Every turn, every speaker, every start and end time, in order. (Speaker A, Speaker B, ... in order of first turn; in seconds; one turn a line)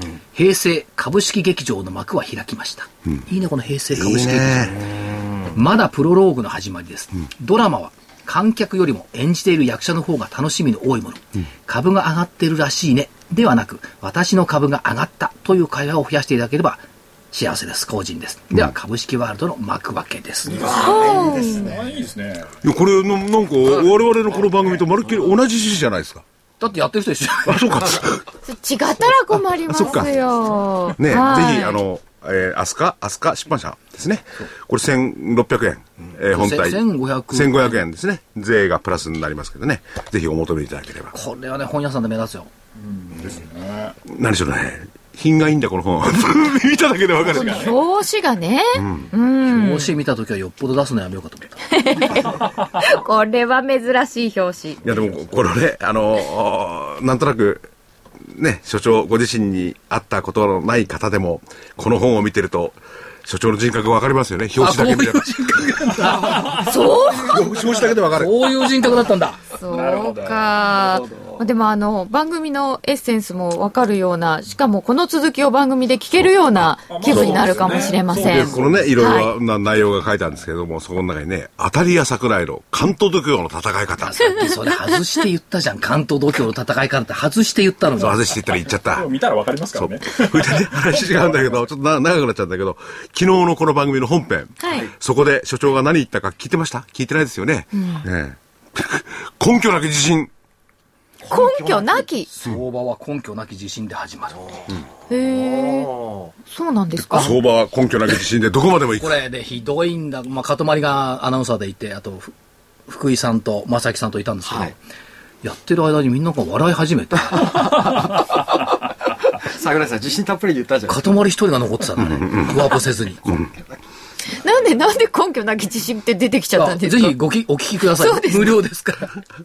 Speaker A: 0.3-4.9
Speaker B: 3.9-5.0
Speaker A: 5.5-20.7
Speaker C: 20.4-22.5
Speaker D: 20.6-21.8
Speaker E: 20.7-21.7
Speaker B: 22.6-26.2
Speaker A: 26.6-27.8
Speaker B: 27.4-28.2
Speaker E: 28.5-31.8
Speaker B: 29.7-30.1
Speaker B: 31.0-41.1
Speaker A: 36.3-37.8
Speaker A: 41.1-42.5
Speaker C: 42.8-44.0
Speaker B: 44.1-47.8
Speaker C: 47.2-47.7
Speaker E: 47.4-50.0
Speaker B: 48.7-49.1
Speaker A: 49.5-51.8
Speaker E: 51.7-54.8
Speaker C: 52.3-52.9
Speaker B: 54.8-57.7
Speaker B: 58.3-69.0
Speaker A: 64.6-69.4
Speaker E: 66.6-67.5
Speaker E: 69.5-79.3
Speaker C: 69.7-70.7
Speaker D: 71.0-71.3
Speaker C: 76.9-78.9
Speaker B: 77.0-84.4
Speaker A: 84.1-88.2
Speaker B: 88.0-89.1
Speaker C: 88.7-91.5
Speaker B: 89.7-100.3
Speaker E: 94.6-94.9
Speaker E: 97.7-98.0
Speaker D: 101.2-102.0
Speaker E: 101.3-102.3
Speaker A: 102.3-104.6
Speaker E: 105.1-105.9
Speaker D: 105.5-106.3
Speaker E: 106.5-107.3
Speaker B: 107.0-109.2
Speaker A: 109.0-112.3
Speaker A: 112.9-114.8
Speaker D: 114.5-114.7
Speaker A: 115.4-117.9
Speaker D: 117.4-118.5
Speaker D: 119.4-121.0
Speaker A: 120.9-123.3
Speaker B: 122.0-122.5
Speaker E: 124.4-127.2
Speaker A: 126.5-129.2
Speaker E: 127.9-128.6